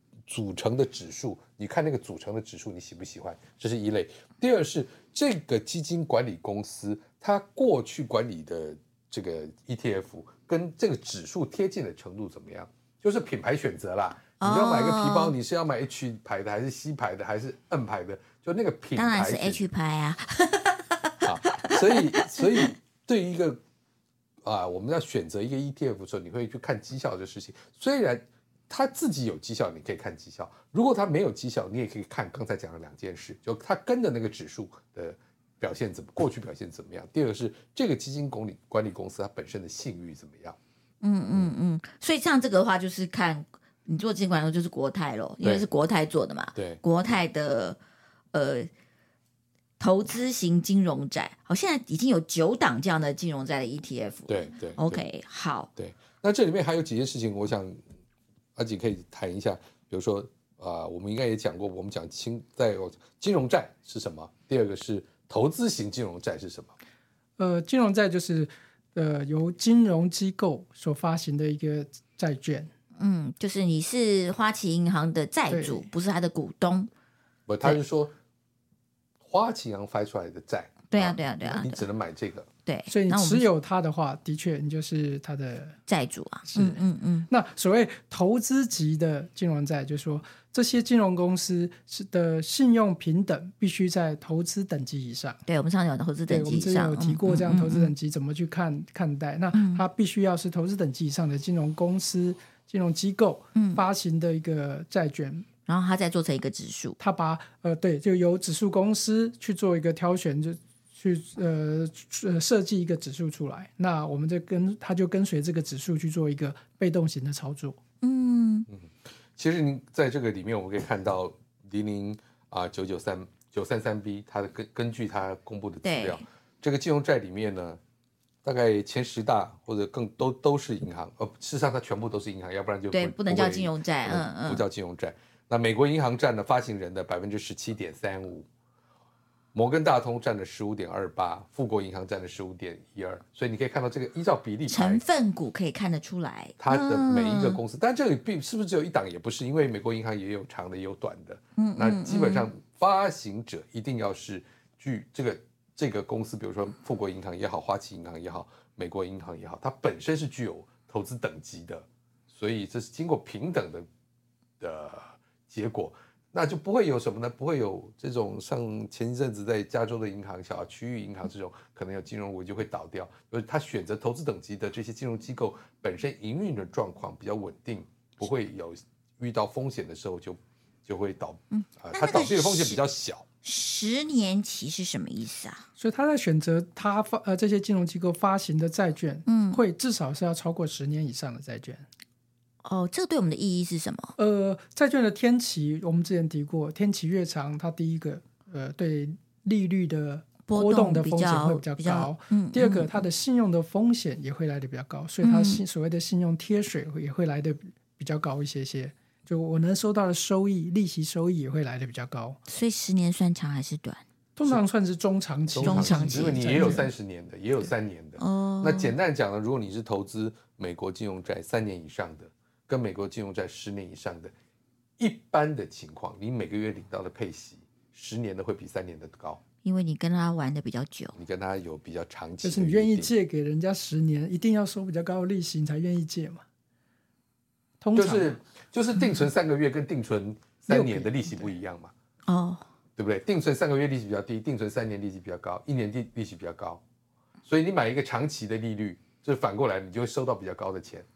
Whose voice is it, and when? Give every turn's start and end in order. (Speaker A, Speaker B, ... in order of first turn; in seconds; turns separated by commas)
Speaker A: 0.3-19.7, Speaker B: 14.4-15.3, Speaker B: 19.0-22.7, Speaker A: 21.2-23.6, Speaker A: 24.4-40.6, Speaker B: 41.0-47.8, Speaker A: 46.5-46.8, Speaker B: 48.3-48.7, Speaker B: 49.8-55.7, Speaker A: 54.3-55.0, Speaker A: 55.8-57.8, Speaker A: 58.5-66.7, Speaker C: 67.4-72.7, Speaker B: 73.0-76.9, Speaker C: 75.5-75.9, Speaker A: 77.5-78.1, Speaker A: 79.2-82.5, Speaker B: 80.9-81.8, Speaker B: 82.7-83.4, Speaker C: 82.9-85.8, Speaker B: 85.9-87.3, Speaker C: 86.5-95.4, Speaker B: 95.5-97.9, Speaker C: 96.3-105.5, Speaker B: 99.5-99.8, Speaker B: 103.5-103.8, Speaker B: 105.7-107.0, Speaker C: 107.0-117.8, Speaker B: 118.0-118.7, Speaker A: 118.7-127.8, Speaker B: 125.8-126.2, Speaker A: 128.4-138.4, Speaker B: 132.9-134.6, Speaker A: 139.5-145.0, Speaker B: 144.7-147.6, Speaker A: 146.6-163.8, Speaker B: 151.6-152.5, Speaker A: 164.6-183.2, Speaker B: 181.5-182.8, Speaker B: 183.4-185.6, Speaker C: 185.8-191.8, Speaker B: 189.2-189.6, Speaker B: 192.6-194.1, Speaker C: 194.2-212.4, Speaker B: 200.5-203.0, Speaker B: 205.2-205.6, Speaker B: 212.5-214.0, Speaker C: 214.3-216.9, Speaker A: 215.5-224.3, Speaker B: 215.6-216.8, Speaker B: 218.2-218.9, Speaker A: 225.0-229.4, Speaker B: 229.6-231.2, Speaker A: 231.2-233.1, Speaker C: 232.4-236.4, Speaker C: 237.8-238.4, Speaker A: 237.9-241.9, Speaker C: 240.7-241.5, Speaker B: 242.3-242.6, Speaker A: 243.0-246.8, Speaker A: 247.4-251.0